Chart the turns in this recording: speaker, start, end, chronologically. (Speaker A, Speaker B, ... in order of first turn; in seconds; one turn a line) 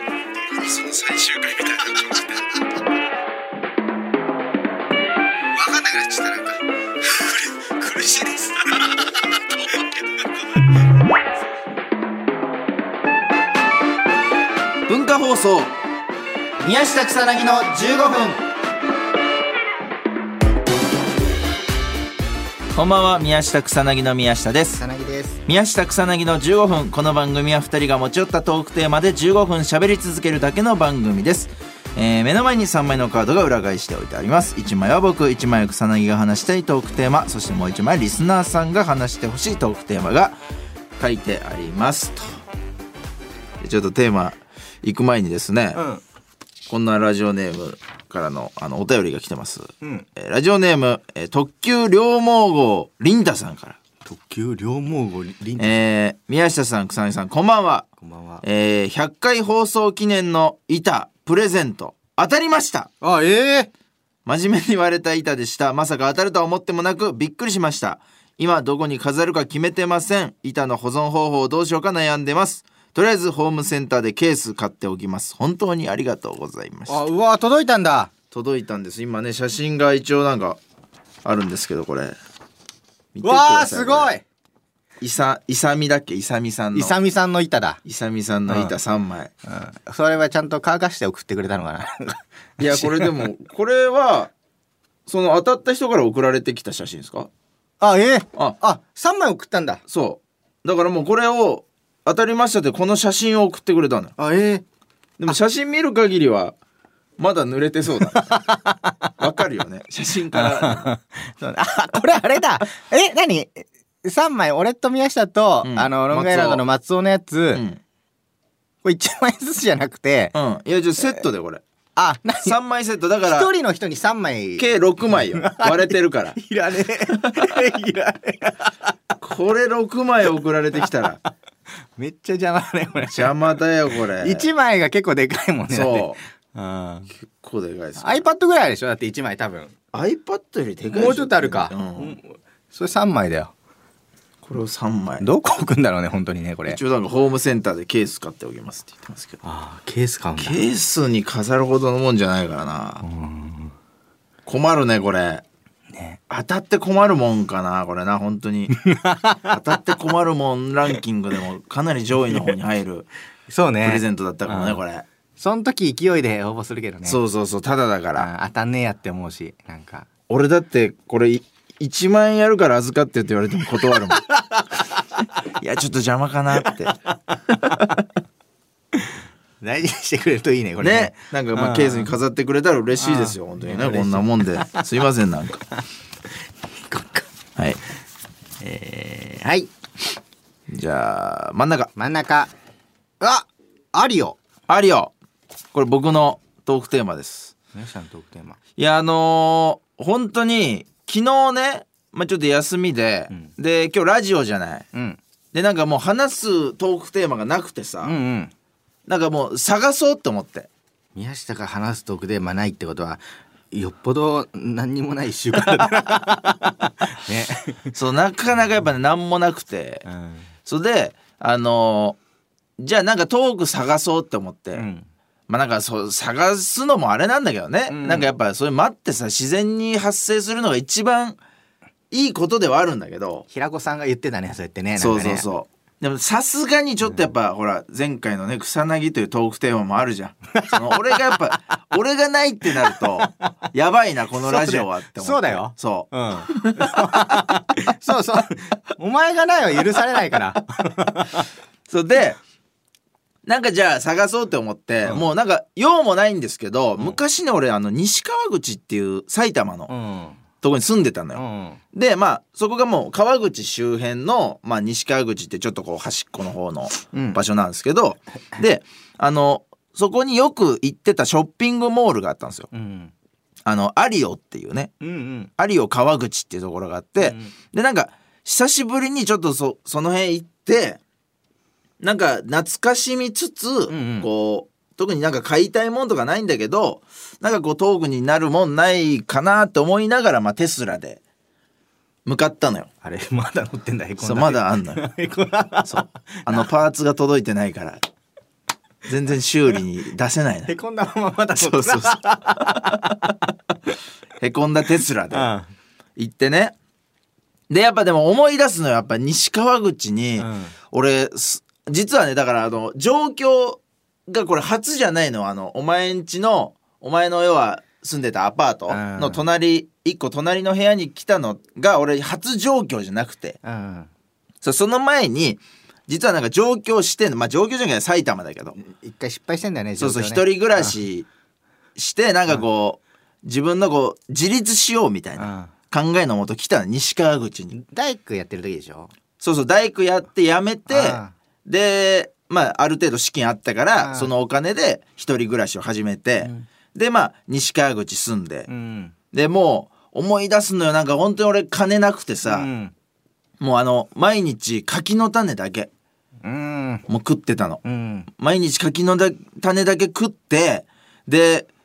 Speaker A: 0.3-2.1
Speaker B: 5.5-10.5
Speaker A: 14.9-15.7
Speaker B: 16.6-18.4
Speaker A: 22.7-24.8
Speaker B: 24.8-25.4
Speaker A: 25.4-40.4
Speaker A: 41.0-42.4
Speaker A: 43.6-45.8
Speaker B: 45.7-46.0
Speaker A: 46.7-53.8
Speaker B: 54.0-55.8
Speaker A: 55.6-57.9
Speaker B: 58.0-58.4
Speaker A: 58.4-62.9
Speaker B: 63.0-63.7
Speaker A: 64.2-77.0
Speaker B: 76.9-78.1
Speaker A: 78.3-80.6
Speaker A: 81.2-82.2
Speaker A: 83.1-84.1
Speaker B: 83.2-84.2
Speaker A: 85.0-87.0
Speaker B: 86.7-87.8
Speaker A: 87.8-89.3
Speaker B: 88.5-88.7
Speaker B: 89.5-93.3
Speaker A: 92.6-94.3
Speaker A: 95.1-97.3
Speaker B: 97.8-99.8
Speaker A: 99.9-104.1
Speaker B: 104.2-104.6
Speaker A: 105.2-106.5
Speaker A: 107.2-108.4
Speaker B: 108.0-108.9
Speaker A: 109.2-110.9
Speaker B: 110.3-117.6
Speaker A: 115.6-116.6
Speaker A: 117.5-117.8
Speaker B: 118.8-120.3
Speaker A: 120.3-121.6
Speaker B: 122.0-122.6
Speaker A: 122.4-123.5
Speaker B: 123.3-128.7
Speaker A: 124.6-126.4
Speaker A: 127.1-127.3
Speaker A: 129.2-131.2
Speaker B: 132.0-137.1
Speaker A: 133.0-134.5
Speaker A: 135.7-136.2
Speaker A: 137.2-138.2
Speaker B: 138.0-139.7
Speaker A: 139.9-142.2
Speaker B: 140.9-143.5
Speaker A: 144.4-145.3
Speaker B: 145.2-146.8
Speaker A: 146.7-149.4
Speaker B: 149.4-150.6
Speaker A: 150.4-153.0
Speaker B: 153.0-153.7
Speaker A: 154.4-155.4
Speaker B: 155.9-156.2
Speaker A: 156.3-158.8
Speaker B: 158.7-159.7
Speaker A: 159.5-163.1
Speaker B: 163.5-164.8
Speaker A: 163.8-165.1
Speaker B: 165.4-167.2
Speaker A: 167.1-168.3
Speaker B: 168.2-170.1
Speaker A: 170.3-174.2
Speaker B: 173.9-174.6
Speaker A: 175.6-176.9
Speaker B: 179.6-182.1
Speaker A: 180.8-185.6
Speaker B: 183.0-184.9
Speaker B: 186.9-187.2
Speaker B: 188.6-189.7
Speaker A: 190.7-191.9
Speaker B: 191.9-192.5
Speaker B: 193.2-194.4
Speaker A: 194.7-195.1
Speaker A: 195.7-197.5
Speaker B: 197.7-198.6
Speaker A: 198.8-204.9
Speaker B: 204.9-205.2
Speaker A: 205.5-208.1
Speaker B: 208.0-208.5
Speaker A: 209.1-210.7
Speaker B: 211.1-217.8
Speaker A: 217.9-220.1
Speaker B: 220.1-220.5
Speaker A: 220.7-222.2
Speaker A: 222.8-224.8
Speaker B: 224.7-225.1
Speaker A: 225.5-231.4
Speaker B: 227.9-228.3
Speaker A: 232.1-233.4
Speaker B: 233.5-235.5
Speaker A: 234.9-247.4
Speaker B: 240.6-240.8
Speaker B: 242.8-243.5
Speaker B: 244.4-251.4
Speaker A: 251.9-252.4
Speaker A: 253.4-259.9
Speaker B: 259.9-260.4
Speaker A: 260.6-272.7
Speaker B: 261.3-261.8
Speaker B: 267.1-267.4
Speaker B: 272.7-273.1
Speaker A: 273.6-274.9
Speaker B: 275.0-275.5
Speaker A: 275.6-281.0
Speaker B: 277.2-277.5
Speaker A: 282.0-291.2
Speaker B: 283.9-284.3
Speaker A: 292.2-292.9
Speaker B: 293.0-296.7
Speaker A: 294.2-295.0
Speaker A: 295.8-298.0
Speaker A: 299.1-300.7
Speaker B: 300.7-303.3
Speaker A: 301.6-303.1
Speaker A: 304.4-305.5
Speaker B: 305.3-305.7
Speaker A: 306.2-306.7
Speaker A: 307.7-323.6
Speaker B: 310.4-310.7
Speaker B: 318.9-319.4
Speaker B: 323.6-324.1
Speaker A: 324.6-328.8
Speaker B: 328.8-330.9
Speaker A: 330.0-331.3
Speaker A: 331.9-337.7
Speaker B: 335.4-335.7
Speaker B: 337.7-339.1
Speaker A: 339.4-348.7
Speaker B: 340.9-341.3
Speaker B: 343.9-344.3
Speaker B: 346.4-346.7
Speaker B: 348.7-349.1
Speaker A: 349.3-352.7
Speaker B: 352.5-352.9
Speaker A: 353.6-355.9
Speaker B: 356.4-357.0
Speaker A: 357.1-357.8
Speaker B: 357.8-358.3
Speaker A: 358.4-361.7